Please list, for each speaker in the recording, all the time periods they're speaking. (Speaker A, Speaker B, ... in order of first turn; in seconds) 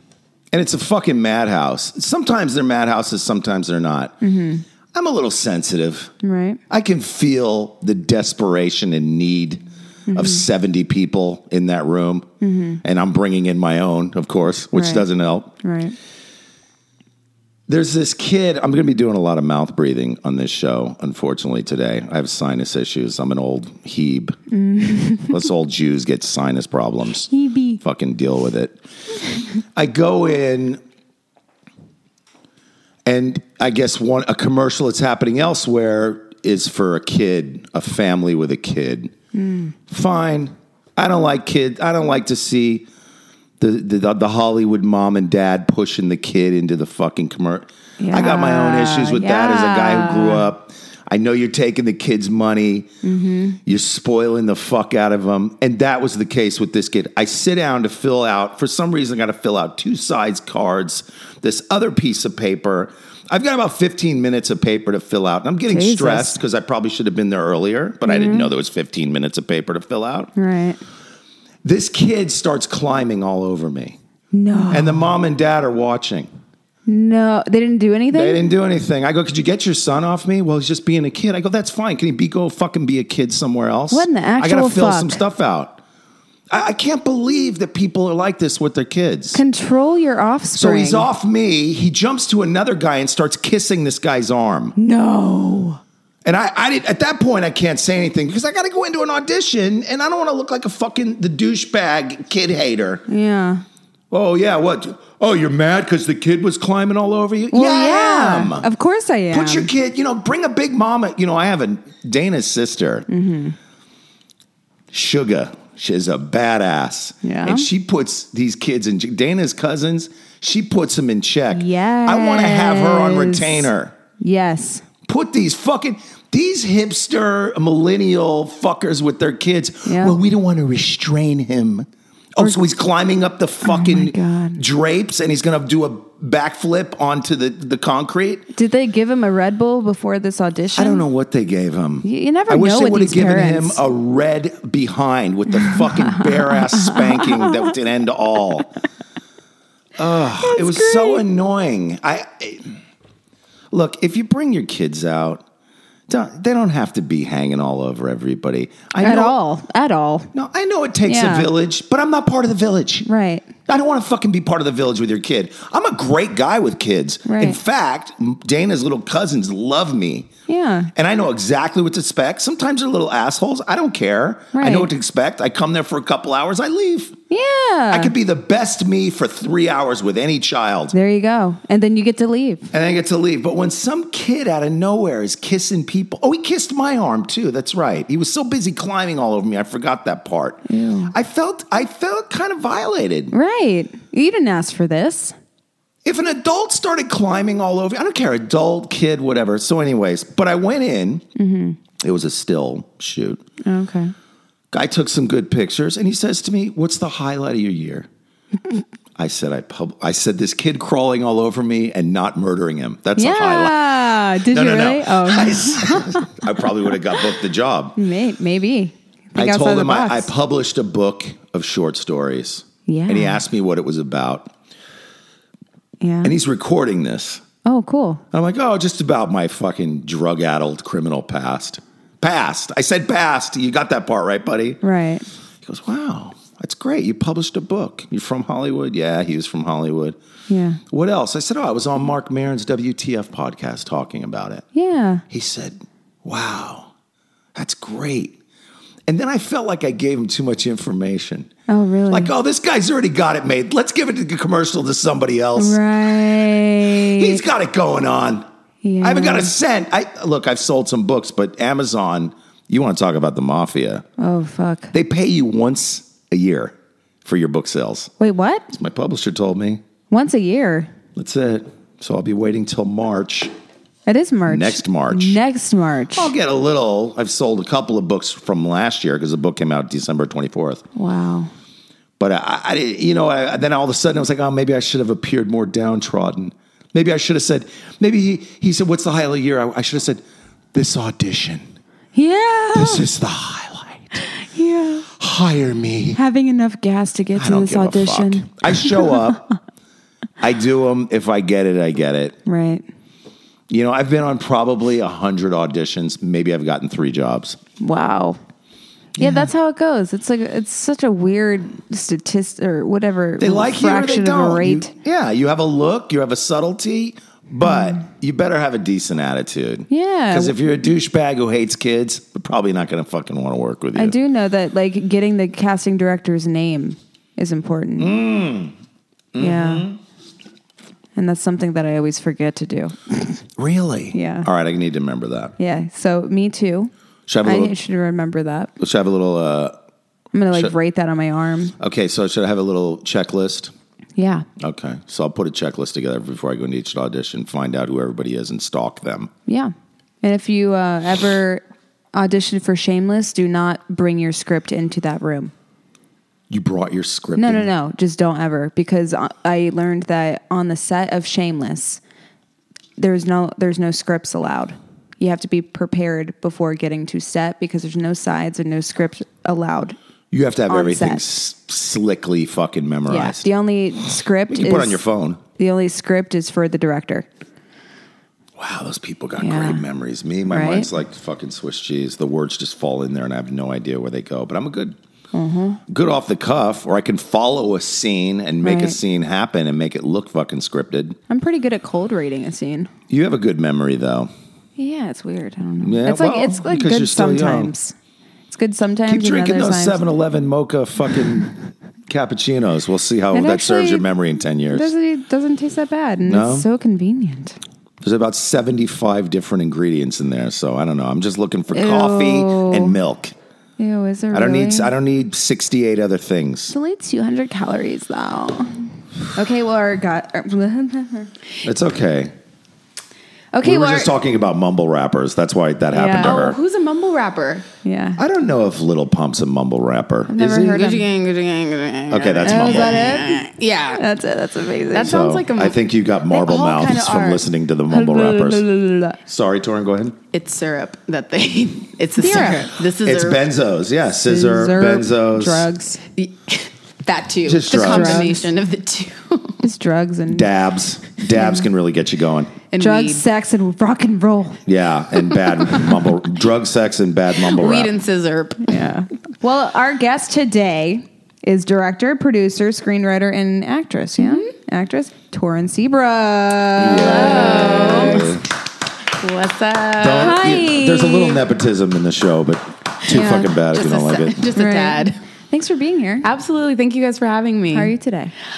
Speaker A: 0.5-4.2, 4.9-6.1, 6.7-12.3, 12.8-15.5, 17.7-24.4, 25.3-27.3, 27.8-28.8, 29.7-30.8, 33.0-39.1, 39.9-42.9, 43.6-52.9, 53.6-70.3, 71.6-74.0, 74.7-76.3, 78.1-85.8, 86.5-89.4, 90.5-94.8, 96.2-103.0, 104.1-108.7, 109.3-113.0, 114.9-123.9, 125.1-138.4, 140.8-148.7, 150.0-152.8, 153.7-155.4, 156.1-159.3, 160.3-163.1, 163.7-170.3, 170.9-177.2, 177.9-180.9, 182.7-193.3, 196.0-201.2, 202.0-203.4, 204.7-208.1, 209.2-213.8, 214.5-217.9, 219.3-224.5, 226.2-227.4, 228.3-234.8, 235.6-240.2, 240.9-244.6, 245.3-246.9, 247.5-248.4, 249.1-251.5, 252.1-255.8, 257.0-258.4, 259.0-264.0, 264.9-268.1, 268.7-269.8, 271.1-273.5, 274.5-275.4, 276.1-280.8, 282.2-290.2, 290.7-291.6, 292.7-294.2, 295.2-296.2, 297.4-299.4, 300.4-302.4, 303.7-307.6, 309.2-309.5, 313.4-324.1, 328.0-328.7, 329.3-330.0, 333.6-335.5, 337.3-337.7, 338.8-339.8, 341.8-343.7, 344.6-349.3, 356.5-357.7, 370.3-373.5, 374.5-375.4, 378.6-384.9, 385.9-391.2, 393.1-394.3, 395.8-397.7, 399.1-401.5, 402.1-404.9, 406.2-406.6, 408.0-413.3, 414.3-416.7, 421.6-422.3, 423.6-426.6, 428.2-430.8, 432.1-433.1, 434.9-438.6, 439.2-440.1, 443.0-445.7, 447.4-448.3, 450.3-452.5, 454.6-457.9, 466.8-468.4, 470.0-474.5
Speaker B: 4.2-4.6, 6.2-6.6, 10.1-10.4, 12.4-12.8, 14.7-15.1, 15.6-15.9, 24.5-25.3, 27.3-27.8, 39.3-39.7, 48.0-50.5, 53.0-53.6, 65.7-66.4, 68.0-68.5, 70.3-70.8, 74.3-75.1, 76.9-78.4, 83.9-85.2, 89.3-91.1, 94.8-95.8, 103.1-103.6, 107.5-109.7, 113.1-113.5, 117.2-117.7, 121.5-124.8, 129.8-130.2, 133.6-134.6, 138.5-141.1, 142.0-143.8, 146.1-147.4, 150.4-151.2, 159.0-160.3, 161.0-161.5, 163.1-163.5, 167.2-167.6, 170.5-170.9, 174.5-174.9, 177.3-178.1, 180.9-182.7, 190.7-191.1, 193.3-195.3, 201.3-201.8, 203.6-204.1, 213.2-216.3, 217.9-220.3, 222.8-223.4, 226.0-226.3, 227.6-228.2, 234.8-235.2, 240.5-240.8, 244.7-245.2, 251.7-252.3, 255.6-257.4, 258.8-259.5, 264.2-264.9, 268.2-268.7, 270.1-270.9, 274.1-276.3, 280.9-281.5, 292.1-293.0, 294.3-295.1, 296.1-299.2, 302.4-302.8, 307.8-308.4, 309.2-314.9, 319.9-320.5, 323.9-328.2, 329.4-329.9, 331.1-333.4, 334.1-334.5, 335.6-336.9, 337.4-338.7, 340.3-341.7, 344.2-344.5, 349.5-351.6, 352.1-355.5, 357.4-362.0, 363.0-369.9, 370.7-371.2, 373.1-375.0, 375.5-377.3, 379.4-379.8, 380.5-380.9, 385.3-385.8, 388.6-389.0, 391.3-392.9, 394.8-397.9, 398.5-400.0, 403.3-404.1, 404.7-407.6, 411.7-412.9, 413.8-414.9, 416.7-421.3, 423.5-424.1, 425.9-426.4, 427.8-428.2, 430.3-431.1, 432.4-435.2, 436.3-439.2, 442.2-442.7, 444.2-446.0, 447.7-448.5, 449.6-450.5, 451.3-451.6, 452.8-454.6, 458.7-468.3, 470.1-471.4, 473.1-473.5, 474.6-476.3, 477.7-478.3
Speaker C: 426.2-427.6, 430.7-434.0, 434.9-435.8, 440.3-443.5, 446.1-449.6, 452.7-453.2, 457.4-458.9, 464.2-464.5, 466.9-468.4, 469.2-470.4, 473.6-475.2, 476.2-477.9